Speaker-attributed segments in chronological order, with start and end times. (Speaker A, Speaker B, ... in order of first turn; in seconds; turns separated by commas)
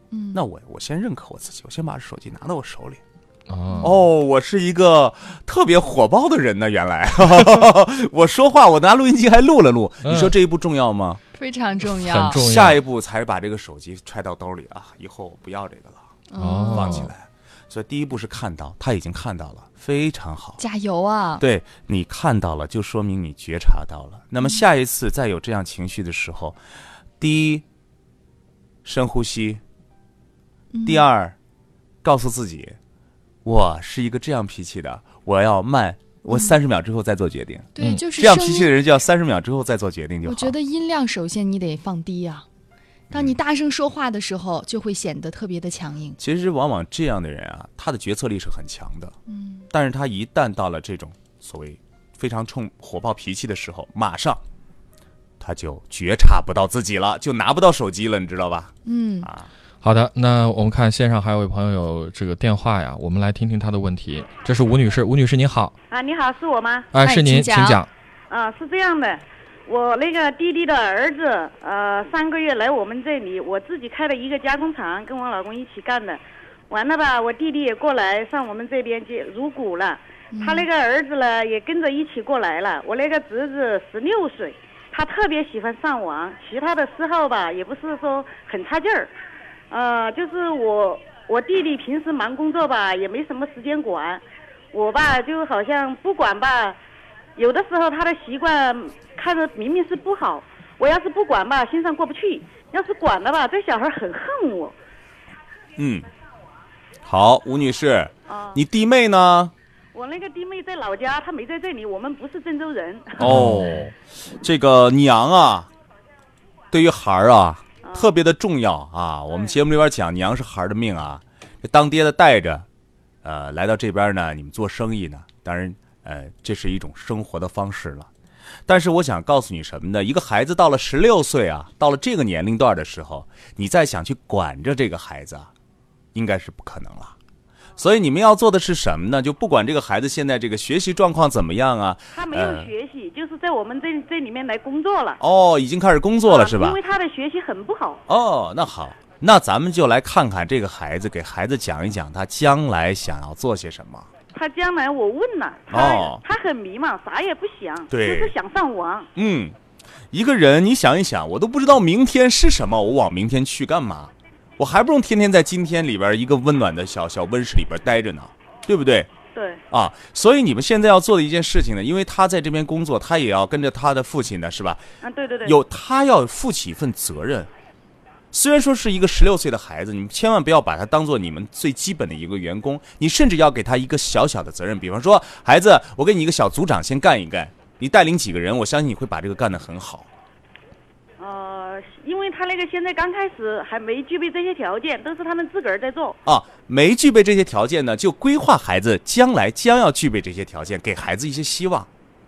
Speaker A: 0.1-0.4, Speaker B: 0.3-3.0, Speaker C: 3.5-4.0, Speaker B: 3.8-11.2, Speaker C: 10.0-10.3, Speaker A: 11.3-12.4, Speaker C: 11.8-12.8, Speaker B: 12.3-16.0, Speaker A: 16.3-17.1, Speaker C: 16.4-17.1, Speaker B: 16.7-20.6, Speaker A: 20.6-21.4, Speaker B: 21.4-26.6, Speaker B: 27.2-27.6, Speaker B: 28.8-29.6, Speaker A: 30.7-31.0, Speaker B: 30.8-31.3, Speaker B: 32.0-32.8, Speaker B: 33.4-40.5, Speaker A: 37.8-38.7, Speaker C: 37.8-38.0, Speaker A: 40.2-42.5, Speaker B: 43.1-43.4, Speaker A: 43.1-46.2, Speaker B: 46.2-49.1, Speaker A: 49.3-49.7, Speaker B: 49.7-54.4, Speaker B: 55.4-59.5, Speaker A: 58.9-59.3, Speaker C: 59.8-65.7, Speaker D: 65.9-66.9, Speaker C: 66.9-67.9, Speaker A: 67.0-67.8, Speaker D: 68.3-89.1, Speaker A: 80.3-80.7, Speaker D: 89.7-94.2, Speaker D: 94.7-96.8, Speaker D: 97.3-104.8, Speaker B: 105.8-106.1, Speaker B: 107.0-109.5, Speaker D: 108.3-108.6, Speaker D: 109.9-113.4, Speaker B: 113.2-113.9, Speaker C: 113.2-113.9, Speaker B: 114.4-115.7, Speaker B: 116.7-122.7, Speaker D: 117.8-118.1, Speaker D: 119.3-119.6, Speaker B: 123.2-128.1, Speaker B: 128.7-135.5, Speaker B: 136.1-137.1, Speaker B: 137.8-142.7, Speaker D: 142.1-145.2, Speaker B: 145.2-146.8, Speaker D: 146.2-148.0, Speaker B: 148.1-154.1, Speaker D: 154.3-159.1, Speaker B: 155.7-156.2, Speaker B: 157.9-158.3, Speaker B: 159.2-159.6, Speaker B: 160.1-169.1, Speaker D: 169.3-169.6, Speaker B: 169.7-174.8, Speaker D: 175.0-175.6, Speaker B: 175.4-177.5, Speaker B: 178.3-190.1, Speaker D: 191.2-196.2, Speaker B: 196.2-201.9